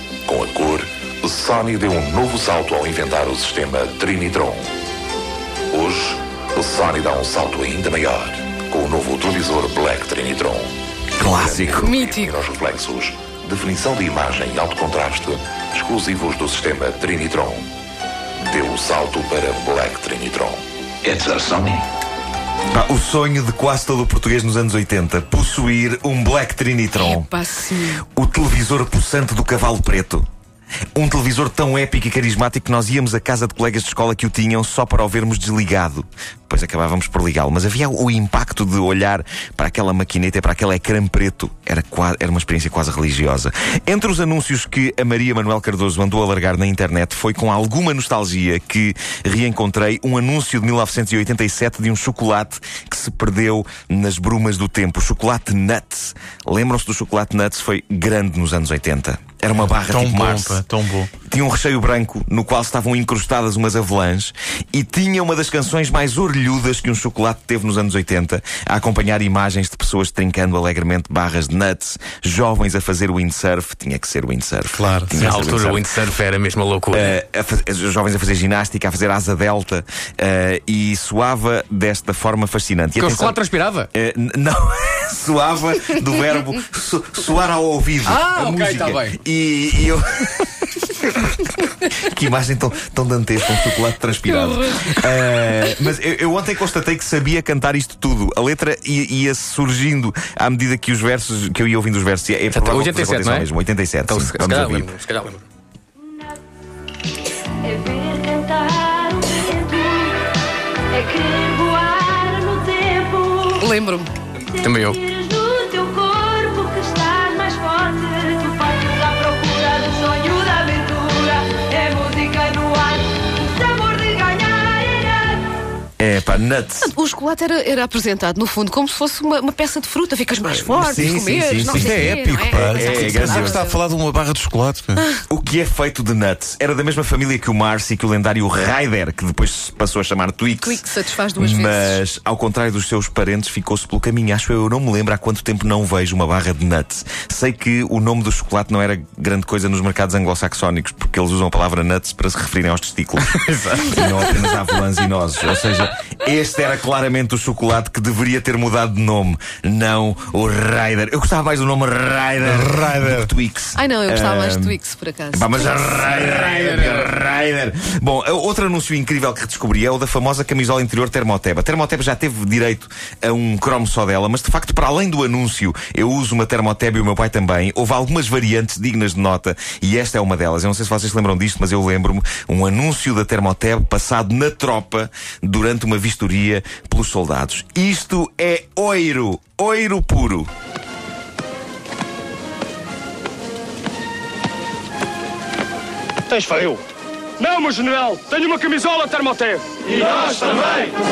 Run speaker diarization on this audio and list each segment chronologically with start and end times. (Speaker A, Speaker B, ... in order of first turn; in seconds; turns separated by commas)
Speaker A: 0.3-4.7, Speaker A: 5.7-17.7, Speaker B: 11.2-11.9, Speaker C: 11.8-12.3, Speaker A: 18.4-21.9, Speaker B: 22.7-27.3, Speaker C: 27.0-28.1, Speaker B: 28.0-30.3, Speaker B: 30.9-60.6, Speaker D: 59.7-61.1, Speaker B: 61.3-75.9, Speaker D: 74.8-75.3, Speaker E: 75.1-77.2, Speaker B: 76.9-83.4, Speaker E: 83.0-83.9, Speaker B: 83.9-104.9, Speaker E: 88.1-89.2, Speaker C: 94.3-94.9, Speaker E: 102.5-103.5, Speaker E: 104.0-105.5, Speaker F: 107.9-108.7, Speaker F: 109.4-110.1, Speaker F: 111.1-112.0, Speaker F: 112.7-113.3, Speaker C: 113.6-114.1, Speaker E: 114.5-115.1, Speaker F: 116.2-116.7, Speaker F: 117.4-120.9, Speaker B: 126.0-126.9, Speaker C: 126.8-133.8, Speaker B: 130.7-133.7, Speaker D: 131.6-135.1, Speaker B: 135.3-140.8, Speaker C: 140.6-142.0, Speaker B: 141.4-164.8, Speaker E: 153.3-154.0, Speaker D: 162.4-163.3, Speaker C: 163.8-166.0, Speaker B: 165.3-190.5, Speaker E: 166.2-167.1, Speaker G: 196.3-196.8, Speaker G: 197.4-200.8